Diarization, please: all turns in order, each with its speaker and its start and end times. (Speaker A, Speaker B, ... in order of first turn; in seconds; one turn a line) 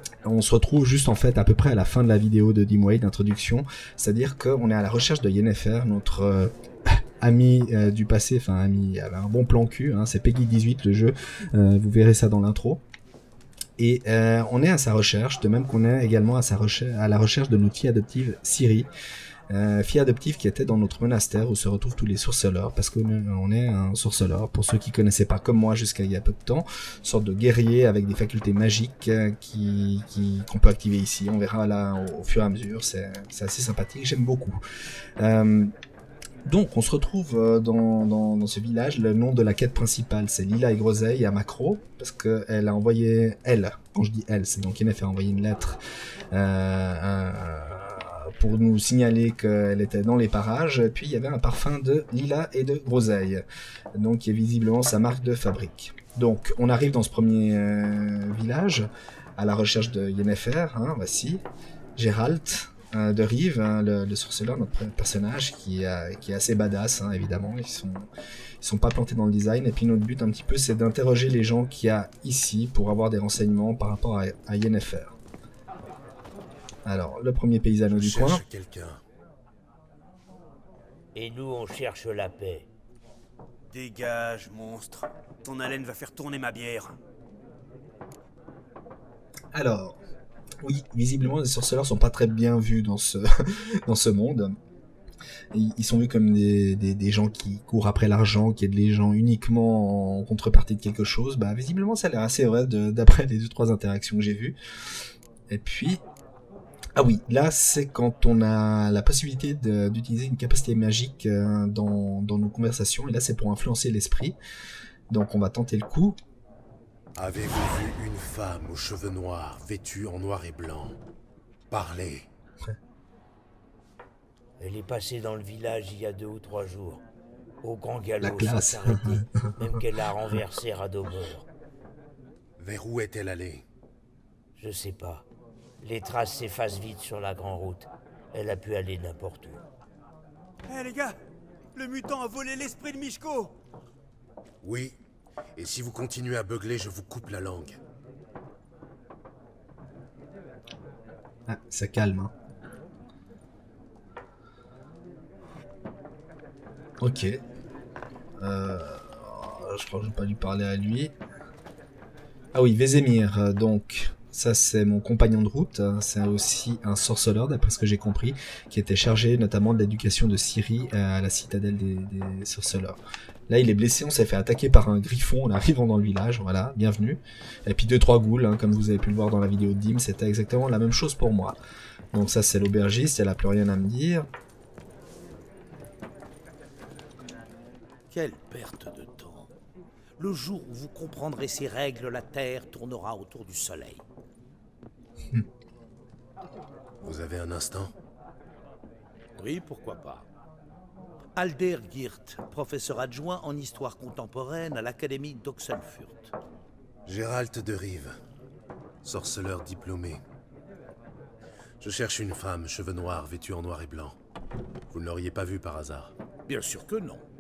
Speaker A: 0.2-6.5
Speaker A: 7.2-12.8
Speaker A: 13.8-18.9
Speaker A: 19.5-34.6
Speaker A: 35.2-35.7
Speaker A: 36.5-45.8
Speaker A: 46.3-53.4
Speaker A: 54.0-61.4
Speaker A: 62.0-68.1
Speaker A: 68.6-75.2
Speaker A: 76.8-78.4
Speaker B: 77.9-79.0
Speaker C: 81.2-82.7
Speaker D: 83.7-87.0
Speaker A: 89.5-90.0
Speaker A: 90.6-94.6
Speaker A: 95.5-104.6
Speaker A: 105.5-106.0
Speaker A: 107.0-114.4
Speaker A: 115.1-116.2
Speaker B: 117.2-121.0
Speaker B: 121.7-122.3
Speaker C: 124.6-127.0
Speaker C: 127.6-131.5
Speaker A: 128.2-129.5
Speaker B: 132.6-133.7
Speaker C: 134.6-135.3
Speaker C: 135.8-139.6
Speaker D: 140.7-141.1
Speaker D: 141.8-143.5
Speaker B: 144.6-145.0
Speaker B: 145.6-147.8
Speaker A: 151.5-152.3
Speaker A: 157.0-157.4
Speaker A: 158.4-161.2
Speaker A: 162.5-181.6
Speaker A: 182.1-184.3
Speaker E: 188.1-189.5
Speaker E: 190.2-194.0
Speaker B: 197.0-197.9
Speaker E: 199.4-200.3
Speaker E: 201.4-206.3
Speaker B: 207.1-208.2
Speaker B: 209.0-210.2
Speaker B: 211.8-214.2
Speaker B: 214.9-216.1
Speaker E: 216.5-217.2